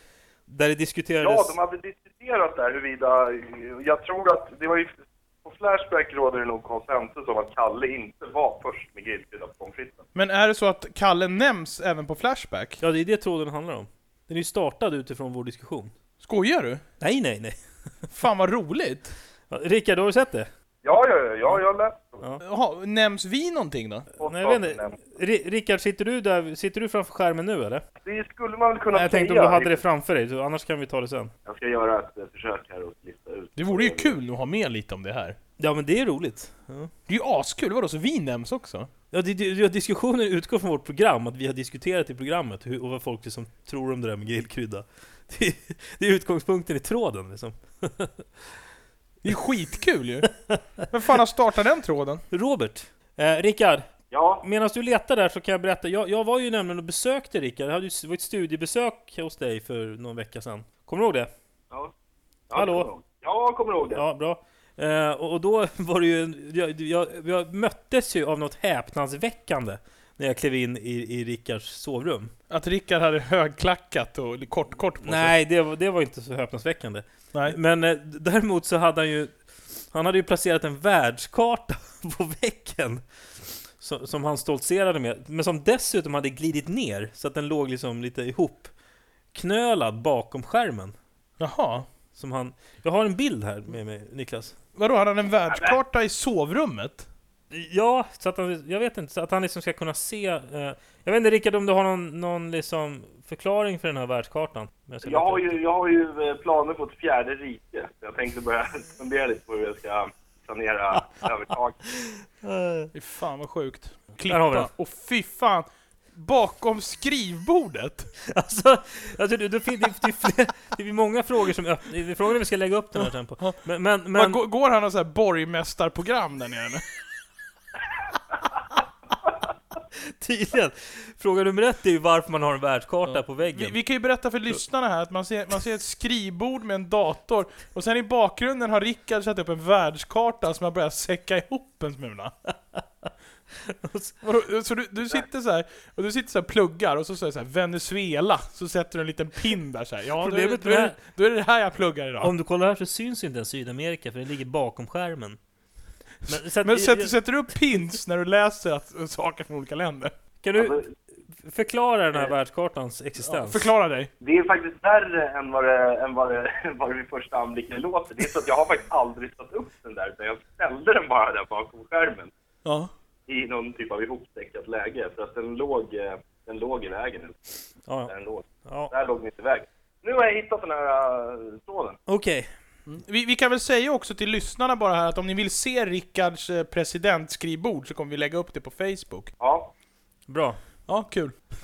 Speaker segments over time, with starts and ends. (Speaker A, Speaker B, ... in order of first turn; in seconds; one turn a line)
Speaker A: 0.5-1.6
Speaker B: 1.2-10.1
Speaker C: 10.2-12.8
Speaker A: 12.8-15.9
Speaker C: 16.2-16.8
Speaker A: 17.0-17.6
Speaker C: 18.1-19.1
Speaker A: 19.5-20.5
Speaker B: 20.8-22.2
Speaker C: 22.4-24.1
Speaker B: 24.2-25.0
Speaker A: 24.2-27.8
Speaker B: 28.0-29.8
Speaker A: 28.9-31.3
Speaker B: 31.5-34.2
Speaker C: 33.6-35.4
Speaker A: 35.6-36.9
Speaker C: 37.1-38.9
Speaker A: 39.1-48.4
Speaker C: 49.2-50.3
Speaker C: 50.9-52.2
Speaker A: 52.3-53.9
Speaker B: 54.1-54.5
Speaker A: 54.4-61.3
Speaker B: 62.5-64.0
Speaker A: 62.5-62.9
Speaker A: 63.9-72.3
Speaker C: 72.5-75.3
Speaker A: 75.0-88.7
Speaker A: 89.3-91.0
Speaker C: 91.4-91.9
Speaker A: 92.2-94.6
Speaker C: 94.8-97.1
Speaker A: 97.5-105.6
Speaker B: 105.0-111.8
Speaker A: 112.0-112.9
Speaker C: 112.9-118.1
Speaker A: 114.3-114.7
Speaker A: 118.2-124.4
Speaker C: 124.2-126.8
Speaker A: 130.1-133.8
Speaker C: 133.1-142.3
Speaker A: 143.6-144.2
Speaker C: 144.2-152.3
Speaker A: 150.2-151.0
Speaker A: 152.2-155.4
Speaker A: 156.3-157.1
Speaker C: 156.3-160.1
Speaker A: 160.4-160.8
Speaker B: 160.6-160.9
Speaker A: 161.4-163.7
Speaker C: 163.2-164.1
Speaker B: 164.2-172.3
Speaker C: 172.7-172.9
Speaker B: 173.3-177.5
Speaker B: 178.1-182.0
Speaker A: 178.7-178.9
Speaker A: 182.1-182.5
Speaker C: 182.9-189.3
Speaker B: 189.4-189.7
Speaker A: 190.3-190.6
Speaker C: 190.9-191.4